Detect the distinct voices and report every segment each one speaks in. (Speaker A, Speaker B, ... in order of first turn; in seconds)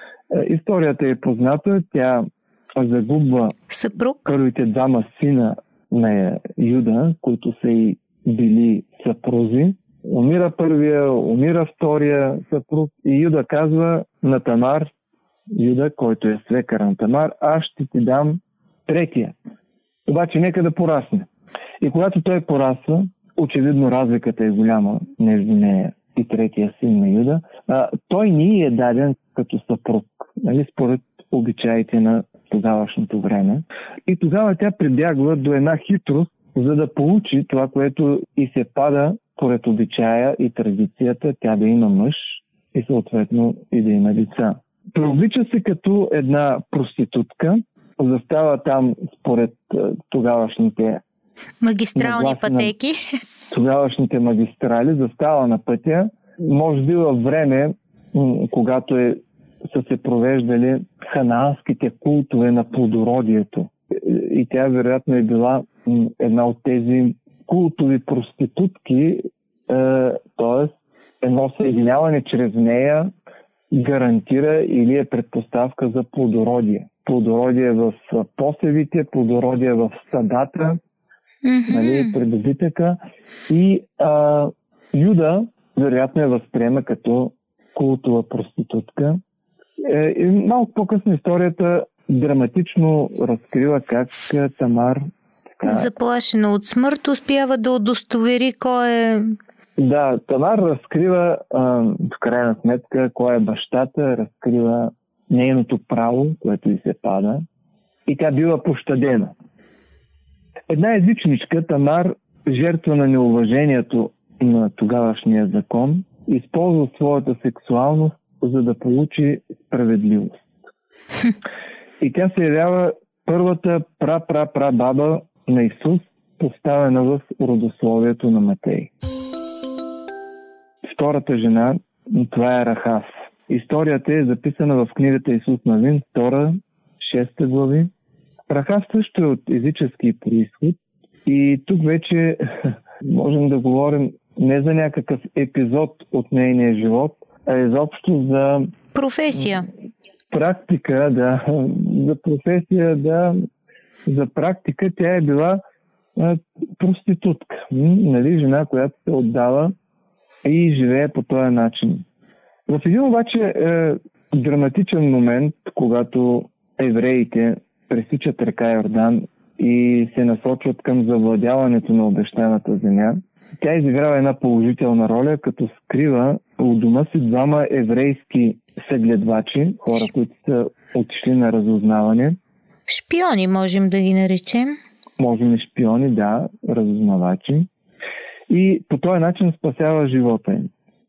Speaker A: 0.3-3.6, 4.3-14.9, 15.5-19.4, 20.1-21.3, 21.8-51.0, 52.0-52.7, 53.5-73.1, 73.7-80.8, 81.7-89.2, 89.8-95.1, 95.6-95.9, 99.8-107.4, 108.1-109.3, 110.7-120.5, 122.0-128.9, 130.8-137.9, 138.5-148.7, 150.3-153.4, 154.1-155.6, 156.2-159.7, 160.4-162.1, 162.7-182.4, 185.2-187.7, 188.5-190.7
Speaker B: 3.7-4.3, 51.6-53.0, 81.4-82.2, 95.6-99.3, 148.9-149.7, 182.9-184.8